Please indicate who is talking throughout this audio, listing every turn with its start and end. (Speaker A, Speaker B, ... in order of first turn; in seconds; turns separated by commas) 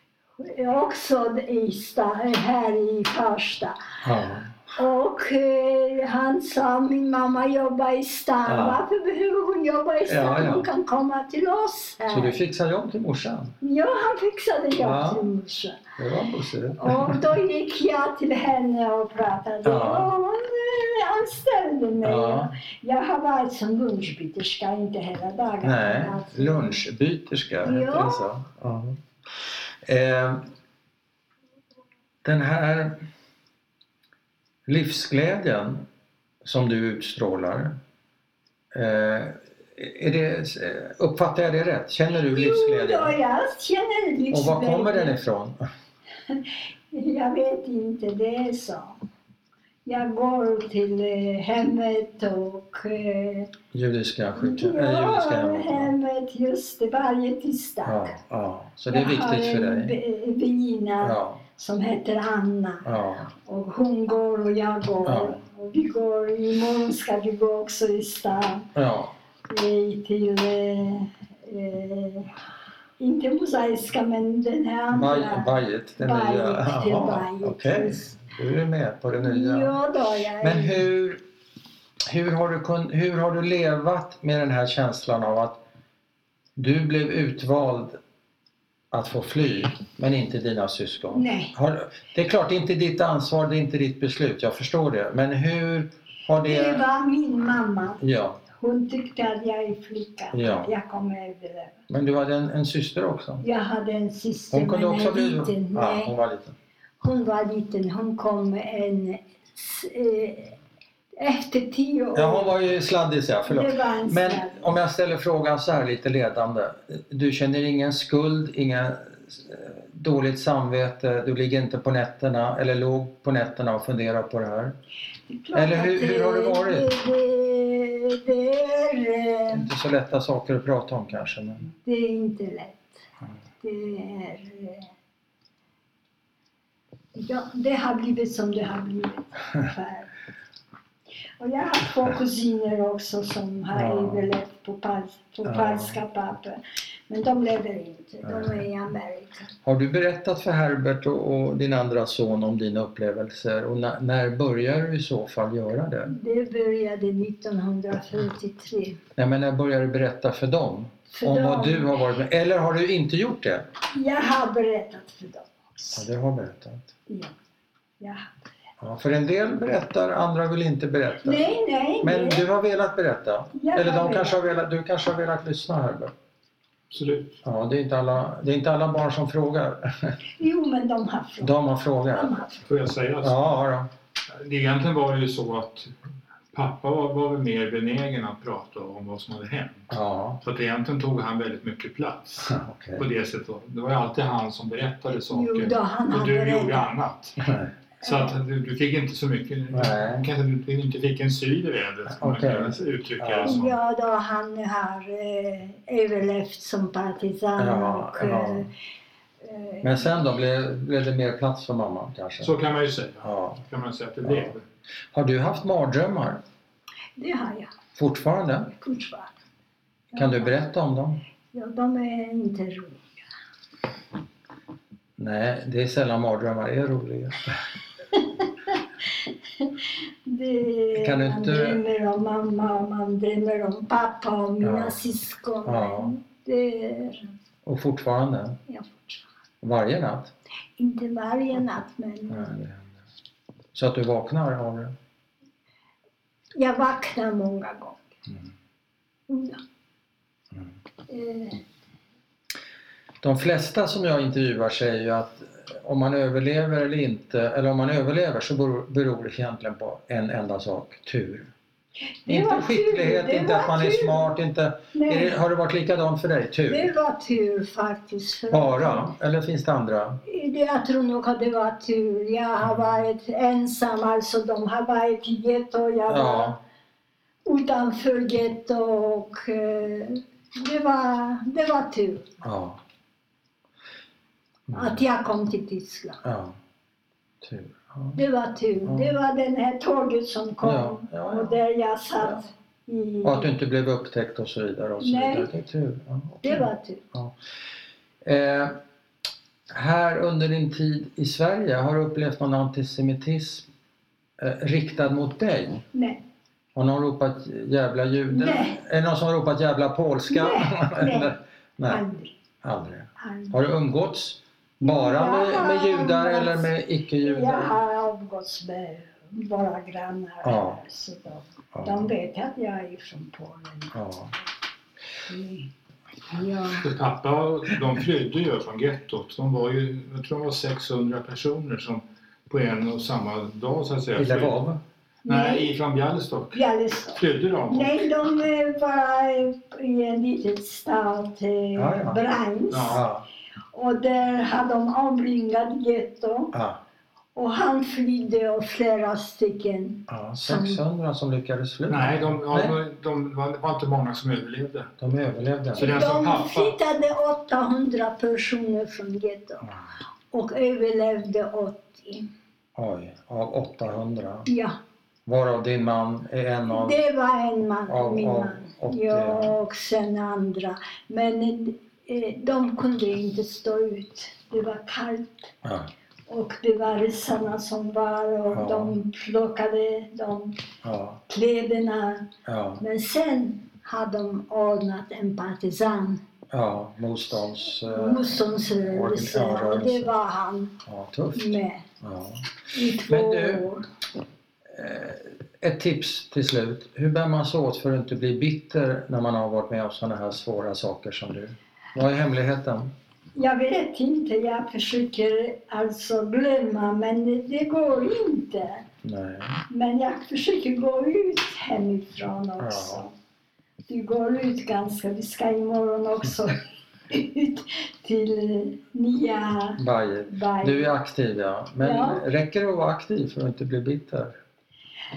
Speaker A: 0.4-3.8, Speaker B: 4.0-4.6, Speaker A: 4.8-12.4, Speaker B: 8.4-8.8, Speaker B: 10.1-10.7, Speaker B: 12.1-13.6, Speaker A: 13.6-15.8, Speaker B: 14.8-15.3, Speaker B: 16.0-17.3, Speaker A: 16.8-26.8, Speaker B: 19.6-20.1, Speaker B: 22.0-22.5, Speaker B: 25.6-30.5, Speaker A: 27.6-28.3, Speaker B: 32.2-33.0, Speaker B: 34.7-35.9, Speaker B: 36.4-37.8, Speaker B: 38.7-43.2, Speaker A: 42.3-45.2, Speaker B: 44.3-45.6, Speaker A: 46.3-49.0, Speaker A: 49.9-53.5, Speaker B: 53.7-55.9, Speaker A: 54.4-58.2, Speaker B: 57.9-60.0, Speaker A: 58.9-68.7, Speaker B: 61.0-61.4, Speaker B: 62.9-63.3, Speaker B: 65.1-65.4, Speaker B: 68.8-69.2, Speaker A: 69.5-72.3, Speaker A: 73.0-78.2, Speaker B: 74.9-79.8, Speaker A: 79.2-80.8, Speaker B: 80.4-81.2, Speaker B: 82.1-85.6, Speaker B: 86.6-88.0, Speaker B: 88.9-96.8, Speaker A: 91.1-91.5, Speaker A: 96.4-101.8, Speaker B: 98.0-98.4, Speaker B: 100.3-100.7, Speaker B: 101.9-103.4, Speaker A: 103.4-106.1, Speaker B: 104.5-106.5, Speaker A: 107.0-110.6, Speaker A: 111.2-112.5, Speaker B: 112.2-124.8, Speaker A: 113.5-114.7, Speaker A: 125.3-129.7, Speaker B: 125.5-126.9, Speaker B: 129.5-131.7, Speaker A: 131.8-133.0, Speaker A: 133.6-134.9, Speaker A: 137.2-140.1, Speaker A: 141.4-146.6, Speaker B: 143.7-144.3, Speaker B: 145.4-146.0, Speaker A: 147.1-149.5, Speaker B: 148.2-148.7, Speaker B: 149.7-156.1, Speaker A: 156.1-159.0, Speaker B: 159.2-163.7, Speaker A: 161.1-161.9, Speaker A: 163.9-166.1, Speaker B: 165.9-166.9, Speaker A: 167.1-167.4, Speaker A: 168.0-168.3, Speaker B: 168.8-171.4, Speaker A: 171.2-172.4, Speaker B: 172.0-176.1, Speaker A: 173.5-174.4, Speaker C: 176.9-177.4, Speaker B: 177.4-180.2, Speaker A: 180.4-181.6, Speaker B: 181.4-182.4, Speaker A: 182.1-182.6, Speaker C: 182.7-183.4, Speaker B: 183.2-183.9, Speaker C: 184.3-185.9, Speaker C: 186.5-189.9, Speaker B: 189.9-190.4, Speaker C: 190.4-203.7, Speaker B: 192.5-193.1, Speaker A: 195.3-196.9, Speaker B: 197.4-197.7, Speaker A: 198.0-198.3, Speaker B: 199.7-200.3, Speaker B: 202.2-203.7, Speaker A: 203.4-208.7, Speaker B: 207.6-208.7, Speaker A: 209.4-210.2, Speaker B: 209.8-212.5, Speaker C: 212.4-214.6, Speaker B: 213.2-213.6, Speaker B: 214.2-214.5, Speaker B: 215.1-216.4, Speaker A: 217.2-217.7, Speaker B: 218.0-218.7, Speaker A: 218.7-219.3, Speaker A: 220.1-220.6, Speaker B: 220.2-221.2, Speaker A: 221.5-223.2, Speaker B: 225.2-227.5, Speaker A: 228.1-237.2, Speaker B: 231.0-231.8, Speaker B: 234.6-235.0, Speaker B: 235.7-236.2, Speaker B: 237.7-238.6, Speaker A: 238.7-239.3, Speaker B: 239.6-240.3, Speaker A: 240.8-242.7, Speaker B: 242.3-242.9, Speaker B: 243.7-244.9, Speaker A: 246.6-248.1, Speaker A: 249.3-249.6, Speaker A: 251.1-251.6, Speaker B: 253.2-261.5, Speaker A: 262.3-264.3, Speaker B: 262.3-266.9, Speaker A: 264.9-265.4, Speaker A: 266.7-269.1, Speaker B: 268.5-270.2, Speaker A: 270.3-276.6, Speaker B: 272.6-272.9, Speaker B: 276.1-276.6, Speaker A: 277.5-282.3, Speaker B: 282.4-282.8, Speaker B: 284.7-285.0, Speaker A: 284.7-286.2, Speaker B: 286.2-286.6, Speaker B: 287.4-288.2, Speaker A: 288.1-293.5, Speaker B: 288.9-289.1, Speaker B: 290.6-291.6, Speaker B: 293.2-297.4, Speaker A: 295.0-295.5, Speaker A: 296.4-297.0, Speaker B: 298.2-298.8, Speaker B: 299.7-303.7, Speaker B: 304.4-305.8, Speaker A: 305.9-306.2, Speaker B: 306.8-312.0, Speaker A: 308.3-308.8, Speaker A: 310.3-311.3, Speaker A: 311.9-312.3, Speaker B: 312.6-317.7, Speaker A: 313.2-313.5, Speaker A: 314.8-324.0, Speaker B: 320.4-320.8, Speaker B: 321.7-322.1, Speaker B: 323.9-324.3, Speaker A: 325.3-325.7, Speaker A: 326.3-326.9, Speaker C: 326.7-334.6, Speaker B: 334.2-334.8, Speaker A: 335.2-335.7, Speaker C: 335.3-336.6, Speaker A: 336.5-343.0, Speaker C: 337.1-338.0, Speaker B: 341.8-342.2, Speaker C: 342.7-343.0, Speaker B: 342.8-343.3, Speaker A: 343.7-346.6, Speaker B: 346.5-346.8, Speaker A: 347.4-350.8, Speaker B: 350.1-352.8, Speaker C: 351.9-354.9, Speaker B: 355.0-356.2, Speaker C: 355.8-356.8, Speaker A: 355.8-359.7, Speaker A: 360.3-362.3, Speaker B: 362.8-364.5, Speaker A: 364.5-364.8, Speaker B: 365.3-367.0, Speaker A: 366.7-375.5, Speaker B: 367.9-369.6, Speaker B: 375.6-375.9, Speaker A: 376.3-380.6, Speaker B: 378.5-378.9, Speaker B: 380.8-381.2, Speaker A: 381.3-386.2, Speaker B: 382.5-382.8, Speaker B: 386.5-390.1, Speaker A: 387.9-390.8, Speaker B: 390.9-392.4, Speaker A: 391.3-391.9, Speaker A: 392.7-393.9, Speaker B: 393.1-393.7, Speaker B: 394.7-402.9, Speaker A: 403.4-408.9, Speaker B: 409.0-409.6, Speaker A: 409.7-413.1, Speaker B: 412.6-413.0, Speaker A: 413.9-420.9, Speaker B: 419.8-424.4, Speaker A: 421.8-422.2